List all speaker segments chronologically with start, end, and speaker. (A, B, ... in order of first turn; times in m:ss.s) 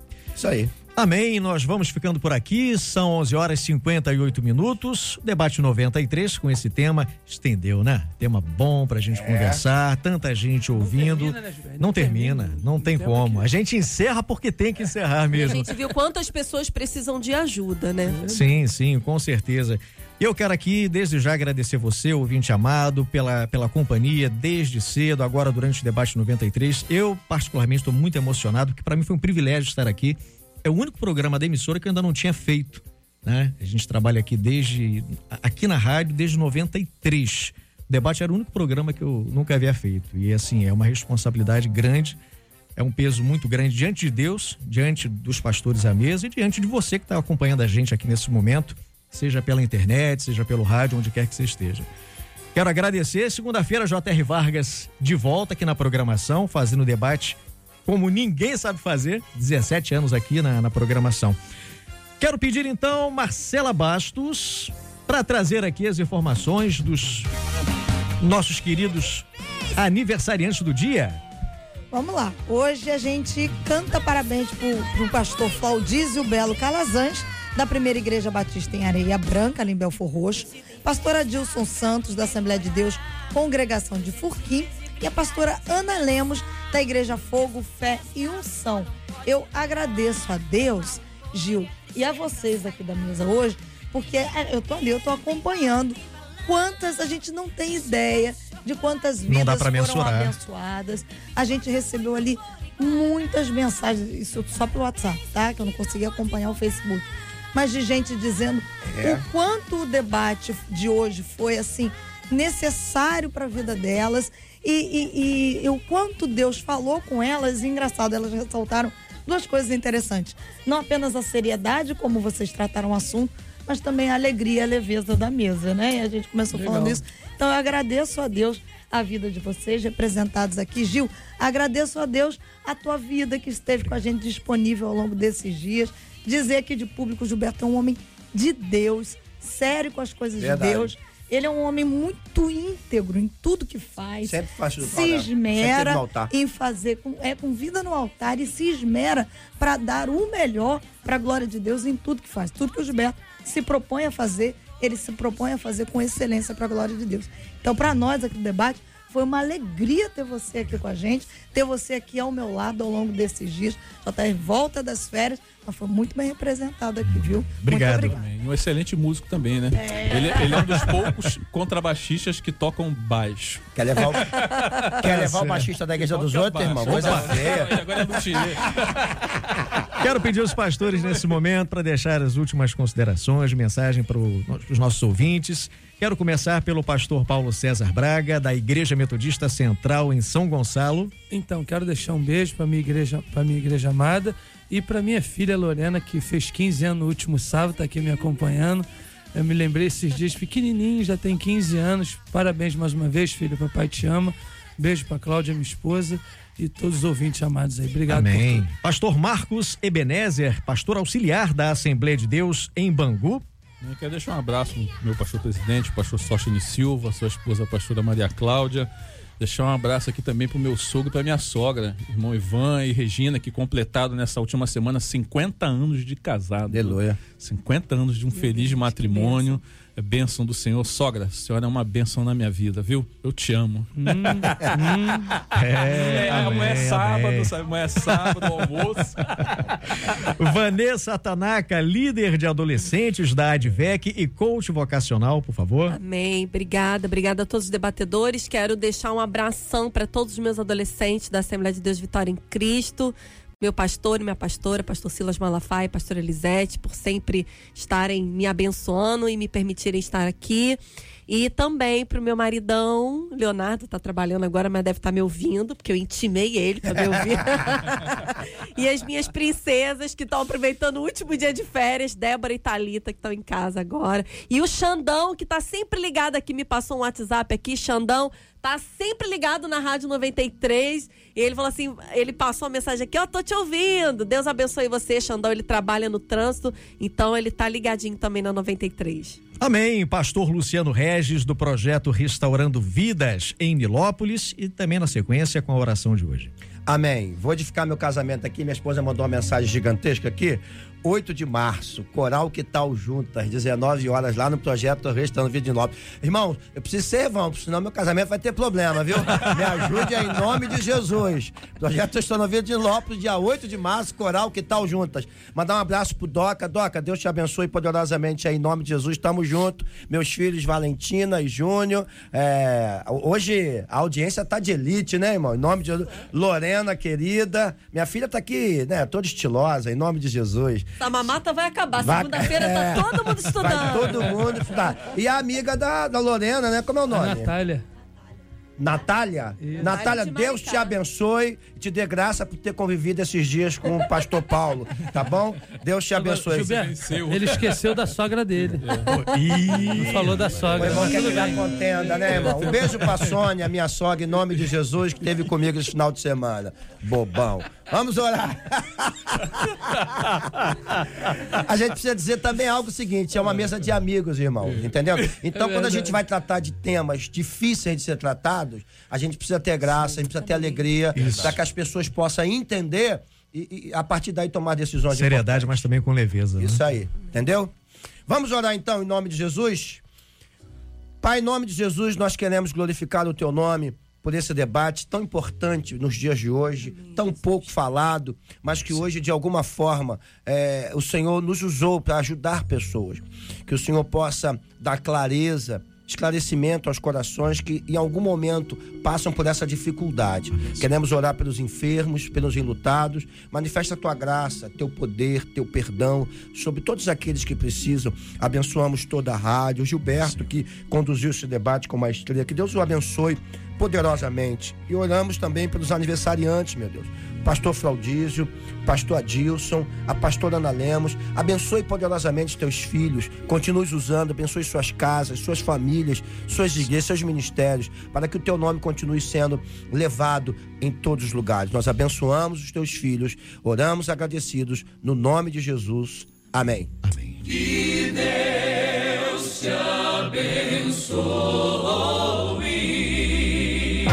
0:00.4-0:00.7 A
0:01.0-0:15.7 B
0:09.1-0:09.6 A
0:10.8-0:13.5 C
0:15.3-0:18.2 D
0:18.1-0:18.4 C
0:18.3-0:42.2 B
0:42.8-0:51.9 B
0:52.5-1:01.4 B
1:02.2-1:07.3 B
1:08.2-1:11.2 B
1:11.9-2:48.2 E
1:39.3-1:40.3 B
1:48.9-1:49.2 A
2:06.5-2:07.0 C
2:20.4-2:21.0 A
2:24.2-2:26.3 A
2:47.1-2:48.2 B
2:48.1-2:59.2 F
2:49.8-2:50.7 E
2:53.8-2:58.0 A
2:55.0-2:55.7 B
2:56.8-2:57.6 B
3:00.0-3:11.1 B
3:11.3-3:28.6 C
3:28.1-3:33.4 B
3:33.8-3:54.7 F
3:46.7-3:47.2 A
3:48.4-3:49.4 D
3:54.0-3:55.4 C
3:55.5-3:57.6 B
3:55.9-4:00.3 F
3:55.9-3:56.5 C
3:58.1-3:58.9 B
4:00.1-4:06.0 B
4:05.9-4:49.4 D
4:49.6-4:56.5 B
4:56.9-5:30.9 A
5:31.0-5:34.5 D
5:32.0-5:37.5 A
5:37.1-5:37.8 C
5:38.8-5:46.8 A
5:39.6-5:40.0 C
5:39.7-5:41.0 D
5:46.2-5:51.6 C
5:46.5-5:47.9 F
5:48.8-5:51.6 F
5:50.7-6:00.4 A
5:52.1-5:53.3 F
6:01.2-6:15.9 A
6:05.6-6:06.2 C
6:10.3-6:10.8 D
6:11.1-6:11.6 B
6:15.1-6:16.8 B
6:16.6-6:17.7 A
6:18.3-6:20.0 A
6:21.2-7:16.9 A
6:26.8-6:27.7 D
6:40.5-6:40.9 B
6:50.2-6:50.5 B
7:17.0-7:17.6 B